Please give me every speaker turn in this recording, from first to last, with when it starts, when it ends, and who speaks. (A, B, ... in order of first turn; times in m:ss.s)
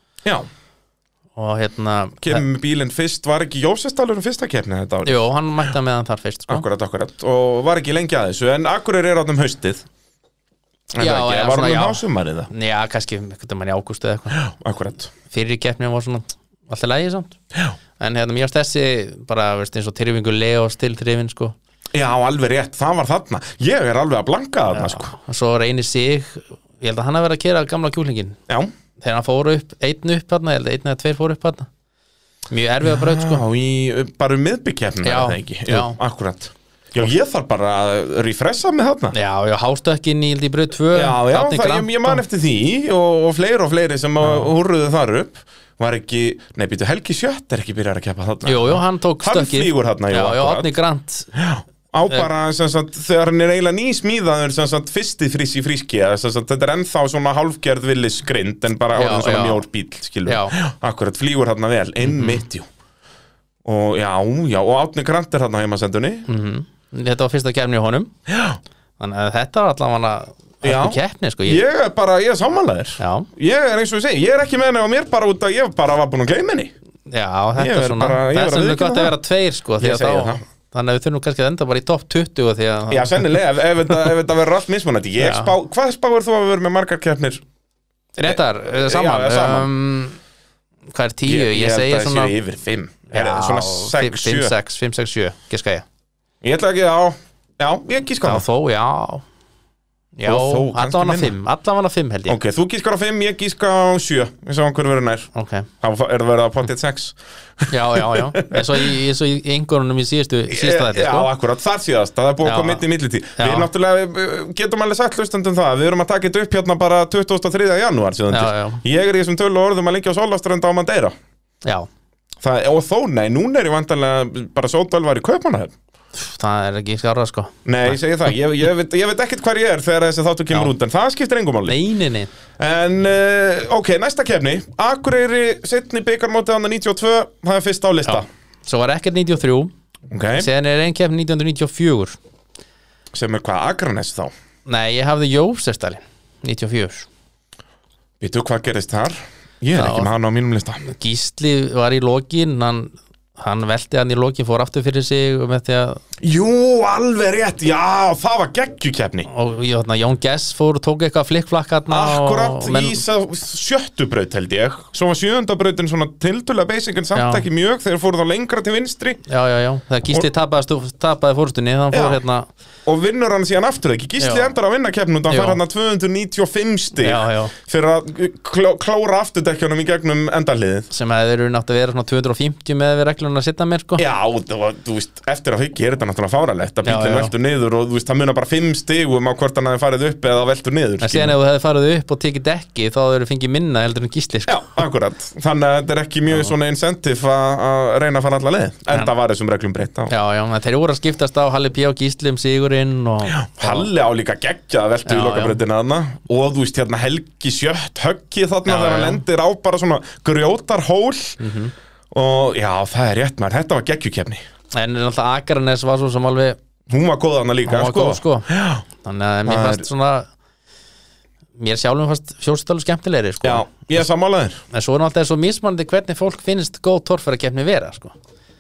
0:01.4-0:02.4 A
0:02.2-0:05.2 B
0:05.0-0:06.7 A
0:06.5-0:09.8 B
0:11.0-0:12.5 B
0:11.0-0:14.4 A
0:14.3-0:15.1 B
0:15.3-0:17.4 A
0:18.0-0:21.6 A
0:21.9-0:25.1 B
0:24.7-0:28.4 A
0:29.0-0:31.7 A
0:32.5-0:33.4 A
0:32.8-0:39.2 B
0:35.0-0:36.0 A
0:39.1-0:42.2 A
0:40.9-0:50.7 B
0:44.2-0:44.5 A
0:48.4-0:51.3 A
0:51.3-1:02.7 B
0:58.9-0:59.6 A
1:00.3-1:00.6 A
1:02.0-1:02.4 A
1:03.6-1:06.3 B
1:06.3-1:08.1 A
1:08.3-1:08.6 B
1:09.0-1:11.6 A
1:10.6-1:16.7 B
1:13.0-1:13.3 A
1:17.1-1:23.2 A
1:17.6-1:19.1 B
1:19.8-1:20.4 B
1:22.9-1:27.4 B
1:25.2-1:25.5 A
1:28.2-1:30.2 A
1:28.2-1:29.7 B
1:30.9-1:32.4 A
1:31.3-1:34.6 B
1:33.1-1:35.8 A
1:36.4-1:38.4 B
1:38.2-1:39.2 A
1:40.2-1:42.4 A
1:40.2-1:41.3 B
1:42.3-1:45.3 B
1:45.3-1:45.7 A
1:45.8-1:48.9 B
1:47.7-1:51.3 A
1:50.5-2:01.1 B
1:52.4-1:52.8 A
1:53.4-1:53.7 A
1:58.3-1:58.8 A
2:02.4-2:05.8 B
2:06.2-2:08.3 A
2:07.6-2:11.8 B
2:11.7-2:12.3 A
2:12.6-2:18.3 B
2:18.1-2:19.7 A
2:20.1-2:20.5 B
2:20.4-2:22.2 A
2:23.1-2:24.3 B
2:24.7-2:27.1 A
2:28.2-2:30.9 B
2:29.8-2:30.1 A
2:30.8-2:36.0 A
2:36.2-2:39.3 B
2:39.3-2:43.0 A
2:41.9-2:49.2 B
2:47.2-2:47.5 A
2:49.3-2:52.5 A
2:51.9-2:52.2 B
2:52.9-3:00.9 B
2:54.2-2:54.5 A
2:55.3-2:55.6 A
2:57.0-2:57.6 A
3:00.9-3:04.0 A
3:04.0-3:11.4 B
3:06.8-3:07.3 A
3:11.0-3:14.7 A
3:14.5-3:20.1 B
3:20.1-3:23.9 A
3:23.3-3:31.4 B
3:25.1-3:25.6 A
3:28.6-3:29.2 A
3:31.4-3:31.7 A
3:32.1-3:34.4 B
3:34.7-3:36.6 A
3:36.9-3:38.8 B
3:37.7-3:38.5 A
3:39.0-3:40.3 A
3:39.5-3:39.9 B
3:41.6-3:44.0 A
3:43.4-3:44.6 B
3:44.7-3:48.1 A